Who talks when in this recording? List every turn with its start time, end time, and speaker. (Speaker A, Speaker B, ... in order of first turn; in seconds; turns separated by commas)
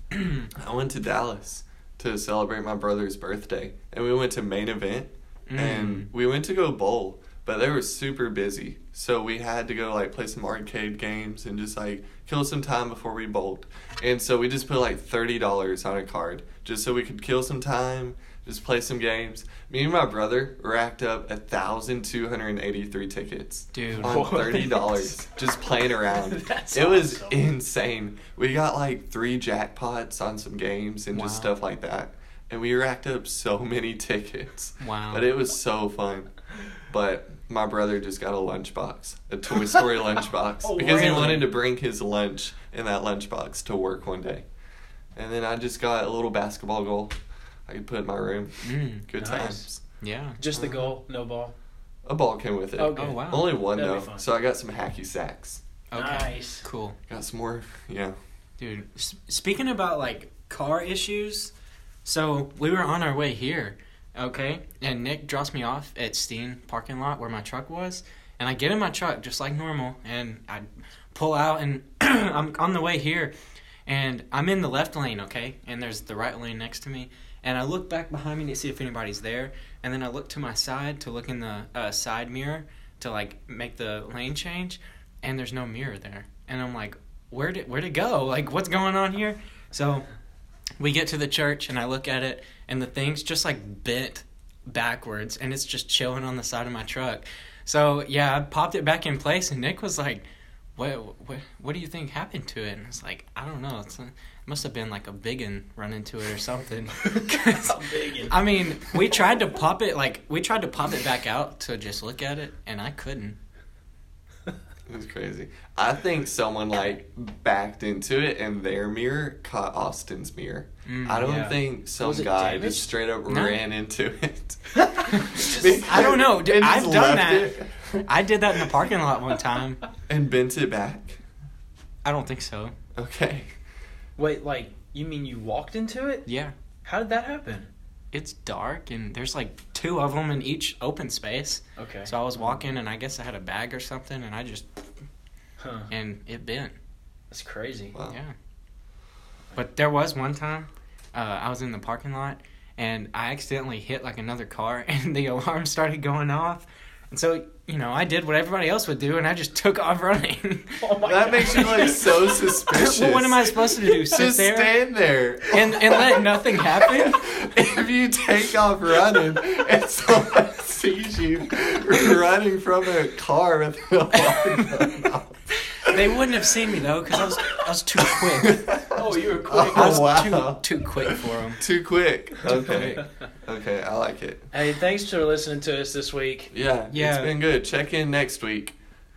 Speaker A: 0.1-0.5, Speaker B: 0.6-36.3, Speaker A: 5.5-6.1, Speaker A: 23.7-24.4, Speaker C: 24.0-25.1, Speaker C: 26.1-27.4, Speaker A: 31.1-31.5, Speaker A: 34.8-35.3, Speaker B: 36.9-44.5, Speaker C: 40.6-41.5, Speaker A: 40.8-41.5, Speaker B: 45.2-47.1, Speaker B: 47.7-49.8, Speaker A: 48.6-49.1, Speaker C: 49.2-49.7, Speaker A: 50.0-50.4, Speaker C: 50.4-51.5, Speaker B: 50.5-50.9, Speaker B: 52.0-55.6, Speaker C: 52.8-54.3, Speaker A: 53.0-53.5, Speaker A: 55.9-57.0, Speaker C: 55.9-56.6, Speaker B: 57.1-58.1, Speaker A: 58.6-61.5, Speaker A: 62.0-73.3, Speaker A: 73.9-90.0, Speaker A: 90.8-100.2, Speaker A: 100.8-113.4, Speaker C: 107.1-108.4, Speaker B: 114.9-128.1, Speaker A: 120.9-121.3, Speaker C: 121.2-122.9, Speaker A: 123.3-123.6, Speaker A: 125.1-129.8, Speaker C: 125.2-126.0, Speaker B: 130.1-131.2, Speaker A: 132.1-132.8, Speaker B: 133.0-133.5, Speaker C: 134.2-136.3, Speaker A: 136.3-136.5, Speaker C: 136.8-137.7, Speaker A: 138.1-144.8, Speaker C: 141.8-142.1, Speaker B: 142.4-142.6, Speaker C: 145.6-145.9, Speaker A: 145.9-146.8, Speaker C: 147.3-147.9, Speaker B: 147.9-148.2, Speaker A: 148.1-148.3, Speaker A: 149.6-162.1, Speaker C: 160.8-162.3, Speaker B: 161.1-175.3, Speaker A: 162.7-164.8, Speaker A: 165.5-167.2, Speaker A: 175.8-178.6, Speaker B: 178.2-184.5, Speaker C: 178.9-180.2, Speaker A: 179.6-181.6, Speaker A: 182.4-183.0, Speaker C: 184.5-186.5, Speaker B: 186.5-188.8, Speaker A: 186.9-187.3